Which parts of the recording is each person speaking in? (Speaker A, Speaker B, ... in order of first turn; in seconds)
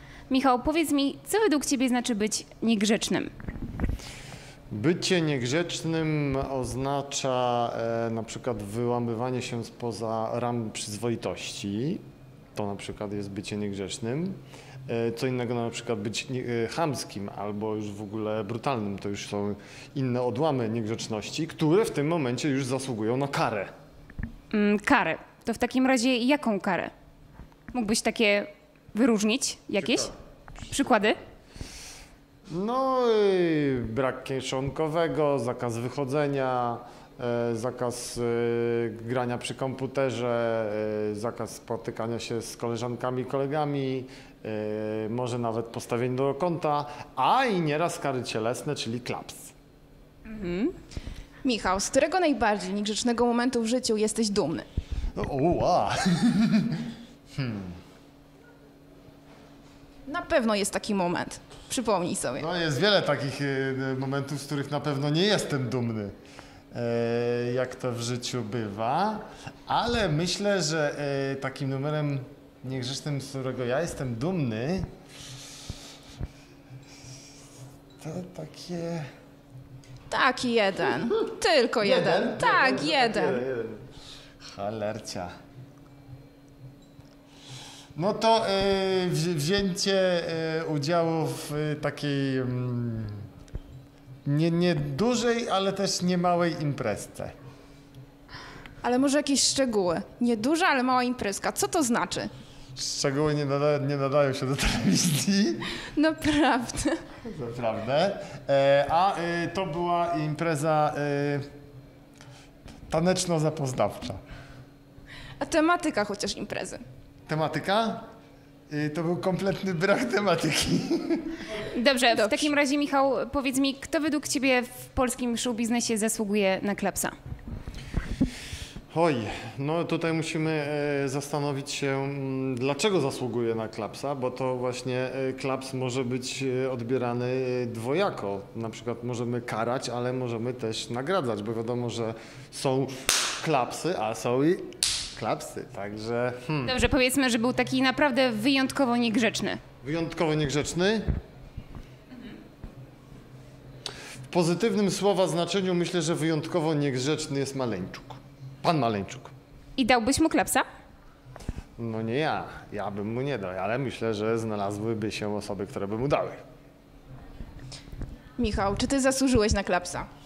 Speaker A: 0.3-3.3, 24.5-26.9, 27.7-30.1, 30.7-31.2, 50.3-50.7, 121.6-127.1, 146.7-149.6, 159.8-160.6
Speaker B: 4.7-12.0, 12.5-14.3, 14.9-23.7, 29.8-30.1, 32.5-49.5, 55.1-57.8, 62.4-66.1, 66.7-74.9, 78.0-79.1, 81.8-83.8, 84.4-85.3, 87.9-93.2, 94.2-97.3, 102.7-105.7, 107.2-111.5, 112.9-114.2, 117.3-118.0, 118.7-121.4, 128.9-146.8, 149.8-151.1, 154.3-159.3, 161.8-166.4
Speaker C: 51.4-54.6, 60.1-62.5, 80.1-83.4, 98.8-102.3, 105.9-107.0, 115.4-116.8, 122.1-122.5, 168.4-170.1